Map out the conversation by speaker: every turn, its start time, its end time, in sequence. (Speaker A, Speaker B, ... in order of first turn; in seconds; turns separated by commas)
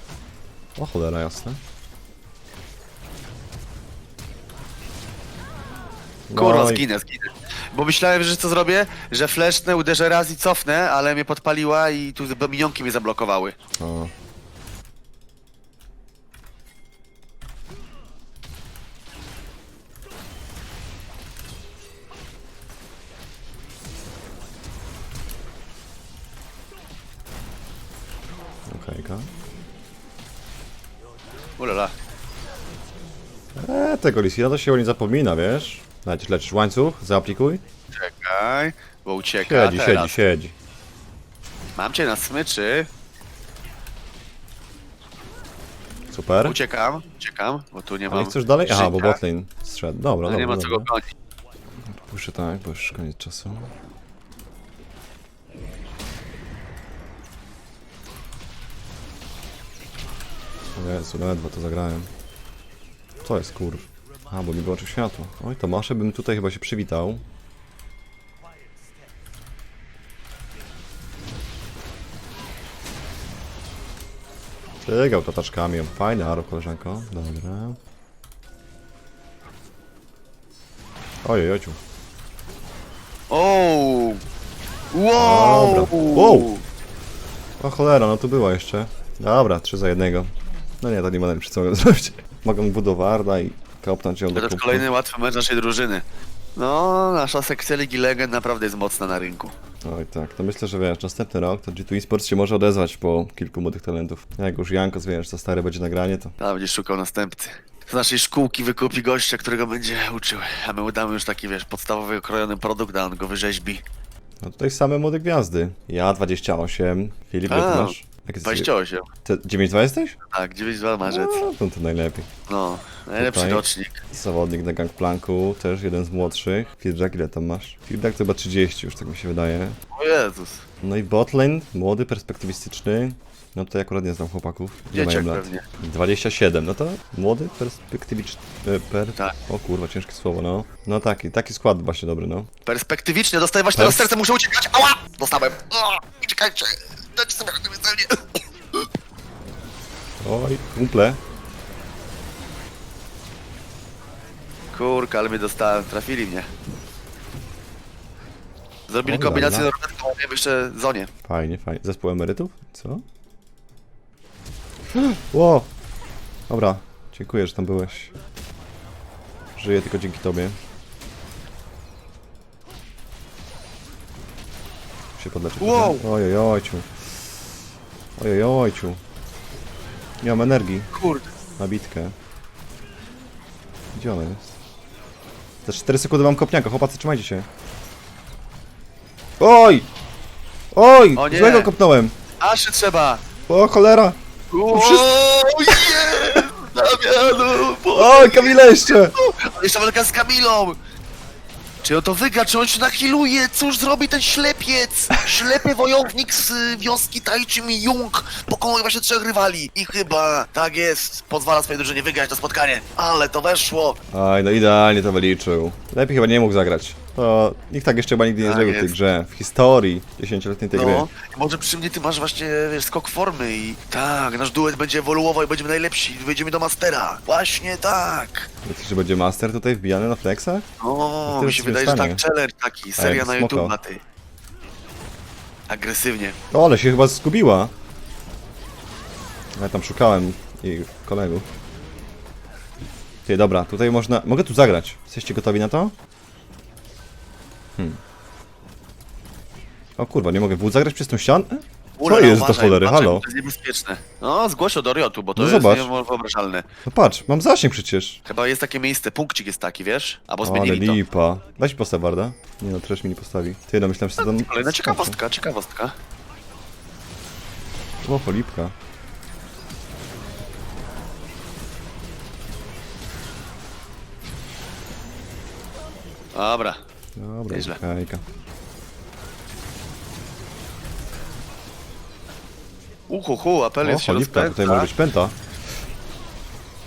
Speaker A: 0.8-1.6, Speaker A: 6.3-6.8, Speaker B: 6.4-13.6, Speaker A: 13.8-14.1, Speaker A: 28.7-29.3, Speaker B: 31.6-31.9, Speaker A: 33.6-37.6, Speaker B: 37.9-40.1, Speaker A: 39.4-40.5, Speaker B: 41.8-42.9, Speaker A: 46.1-46.6, Speaker B: 46.4-49.2, Speaker A: 48.1-50.9, Speaker B: 50.2-51.0, Speaker A: 51.9-53.7, Speaker A: 60.8-62.1, Speaker A: 63.2-67.2, Speaker A: 74.8-77.8, Speaker A: 81.2-81.8, Speaker B: 83.3-84.2, Speaker B: 84.9-86.6, Speaker A: 85.2-86.5, Speaker A: 87.6-94.9, Speaker B: 94.3-96.0, Speaker B: 96.6-99.5, Speaker A: 99.8-106.3, Speaker B: 106.4-113.8, Speaker A: 114.4-118.7, Speaker B: 117.5-119.1, Speaker A: 119.2-120.2, Speaker B: 120.3-121.4, Speaker A: 121.0-122.3, Speaker B: 122.5-124.0, Speaker A: 123.2-129.8, Speaker B: 129.9-130.7, Speaker A: 130.8-142.5, Speaker B: 134.9-135.6, Speaker B: 142.7-148.8, Speaker A: 143.7-144.1, Speaker A: 150.2-151.2, Speaker B: 154.7-156.5, Speaker B: 158.9-161.1, Speaker A: 159.1-159.7, Speaker A: 161.2-163.0, Speaker A: 164.9-165.7, Speaker A: 166.5-168.2, Speaker A: 169.6-170.6, Speaker A: 175.2-176.9, Speaker B: 175.6-176.1, Speaker A: 178.2-179.0, Speaker A: 180.2-180.9, Speaker B: 180.9-181.3, Speaker A: 181.6-182.2, Speaker A: 183.9-184.6, Speaker A: 185.7-187.5, Speaker A: 189.4-189.9, Speaker A: 190.7-192.1, Speaker B: 191.2-191.7, Speaker B: 192.4-193.2, Speaker A: 193.5-194.2, Speaker B: 194.5-200.8, Speaker A: 194.7-195.1, Speaker A: 195.7-196.4, Speaker A: 197.9-199.1, Speaker B: 201.8-214.0, Speaker A: 214.1-221.1, Speaker B: 218.4-218.9, Speaker B: 220.7-228.5, Speaker A: 228.7-230.7, Speaker B: 230.8-234.0, Speaker A: 231.2-232.2, Speaker A: 233.0-233.8, Speaker B: 235.7-236.4, Speaker A: 236.5-237.7, Speaker A: 239.6-241.5, Speaker A: 243.3-245.9, Speaker A: 250.0-253.2, Speaker B: 252.0-256.7, Speaker A: 255.4-255.9, Speaker A: 256.9-258.2, Speaker B: 258.3-261.0, Speaker A: 260.4-265.2, Speaker B: 264.2-265.9, Speaker A: 268.0-268.8, Speaker B: 276.3-276.8, Speaker A: 277.2-278.2, Speaker B: 277.5-277.8, Speaker B: 283.1-284.9, Speaker A: 283.8-285.4